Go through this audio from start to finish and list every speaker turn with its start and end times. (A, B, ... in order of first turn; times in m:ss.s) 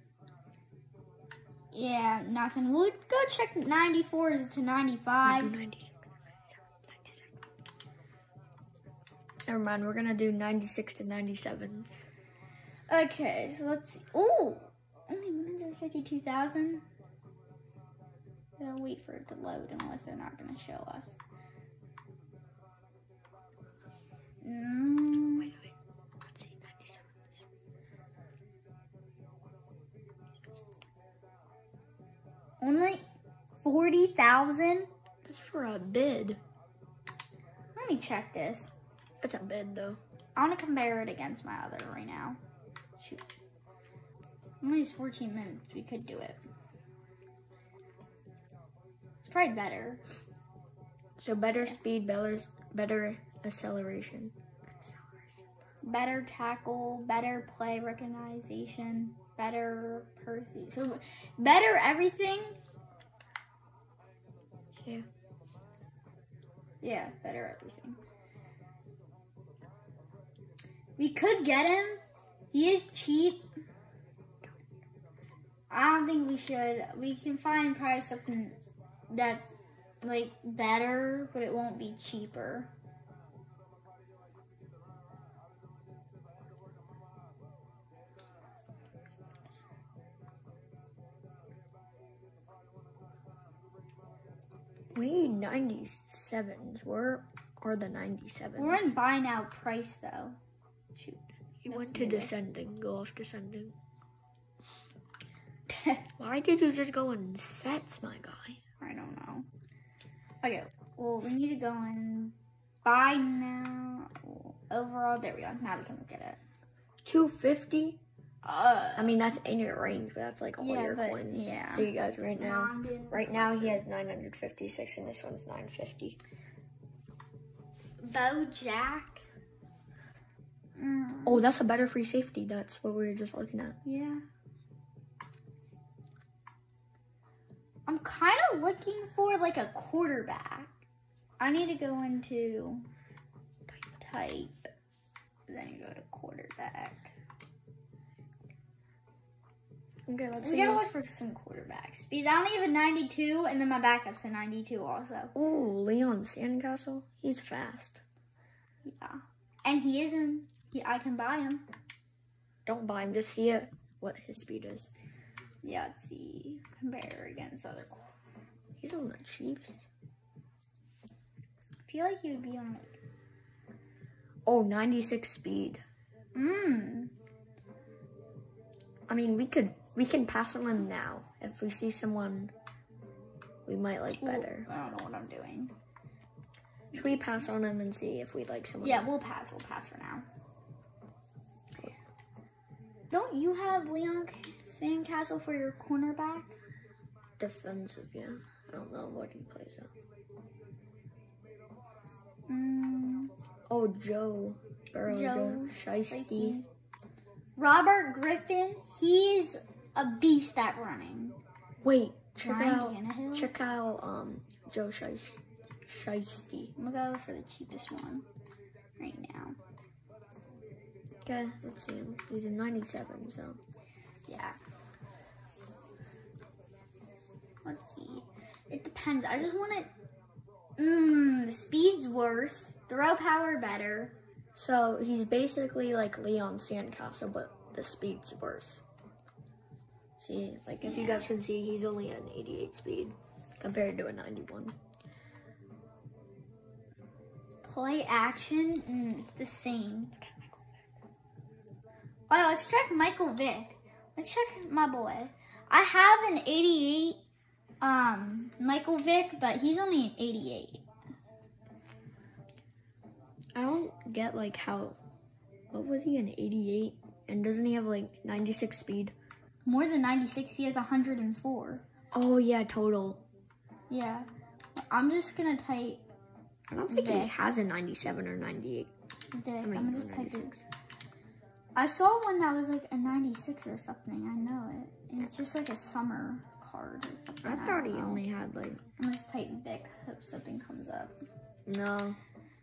0:01.7-0:05.6 A
0:05.2-0:07.4 B
0:09.5-0:11.9 B
0:12.9-0:16.8 A
0:18.6-0:21.1 A
0:24.4-0:25.5 A
0:25.4-0:25.7 B
0:26.2-0:27.4 B
0:32.6-0:33.0 A
0:33.6-0:34.9 A
0:35.2-0:36.4 B
0:37.8-0:38.7 A
0:39.2-0:40.0 B
0:40.4-0:42.4 A
0:43.0-0:43.2 A
0:44.6-0:46.4 A
0:49.2-0:50.0 A
0:51.2-0:55.3 B
0:55.8-1:02.6 A
1:04.8-1:05.0 B
1:06.8-1:08.0 A
1:11.0-1:12.0 A
1:12.5-1:13.4 A
1:15.7-1:18.6 A
1:19.1-1:22.7 A
1:34.9-1:38.9 B
1:38.6-1:40.4 A
1:40.9-1:42.4 A
1:41.6-1:43.7 B
1:45.7-1:46.1 A
1:46.2-1:48.6 B
1:48.8-1:49.5 A
1:50.4-1:56.4 A
1:57.0-1:58.0 B
1:58.4-1:59.2 A
1:59.0-2:06.2 B
2:00.6-2:03.8 A
2:08.0-2:09.2 A
2:10.8-2:11.4 A
2:11.2-2:13.8 B
2:13.8-2:14.2 A
2:17.8-2:20.7 A
2:21.4-2:22.8 A
2:23.9-2:24.7 A
2:25.5-2:27.1 A
2:30.1-2:30.8 B
2:30.4-2:35.3 A
2:35.3-2:38.0 B
2:38.8-2:41.6 A
2:42.6-2:44.9 B
2:45.6-2:48.1 A
2:48.8-2:49.9 B
2:51.8-2:53.0 A
2:54.4-2:55.8 B
2:56.3-2:57.1 A
2:59.1-3:02.5 B
3:03.7-3:04.7 B
3:04.2-3:05.7 A
3:06.9-3:09.1 B
3:08.8-3:10.2 A
3:13.1-3:16.5 A
3:17.4-3:19.9 B
3:22.5-3:23.3 A
3:23.7-3:26.6 B
3:25.0-3:26.7 A
3:27.6-3:31.4 A
3:31.8-3:36.7 B
3:32.4-3:33.5 A
3:36.8-3:38.3 A
3:39.0-3:39.6 A
3:41.2-3:43.6 B
3:44.3-3:44.6 A
3:47.6-3:49.9 A
3:50.8-3:54.1 A
3:54.5-3:58.8 B
4:00.2-4:04.8 B
4:00.8-4:01.3 A
4:07.6-4:10.1 A
4:12.3-4:17.2 A
4:17.8-4:20.8 A
4:23.5-4:25.0 B
4:25.7-4:29.1 B
4:29.6-4:31.8 A
4:32.1-4:33.2 B
4:33.9-4:36.0 A
4:36.7-4:38.9 B
4:36.9-4:37.3 A
4:39.3-4:40.5 A
4:39.6-4:40.6 B
4:41.8-4:48.2 A
4:47.4-4:48.8 B
4:49.0-4:51.1 A
4:51.7-4:52.2 B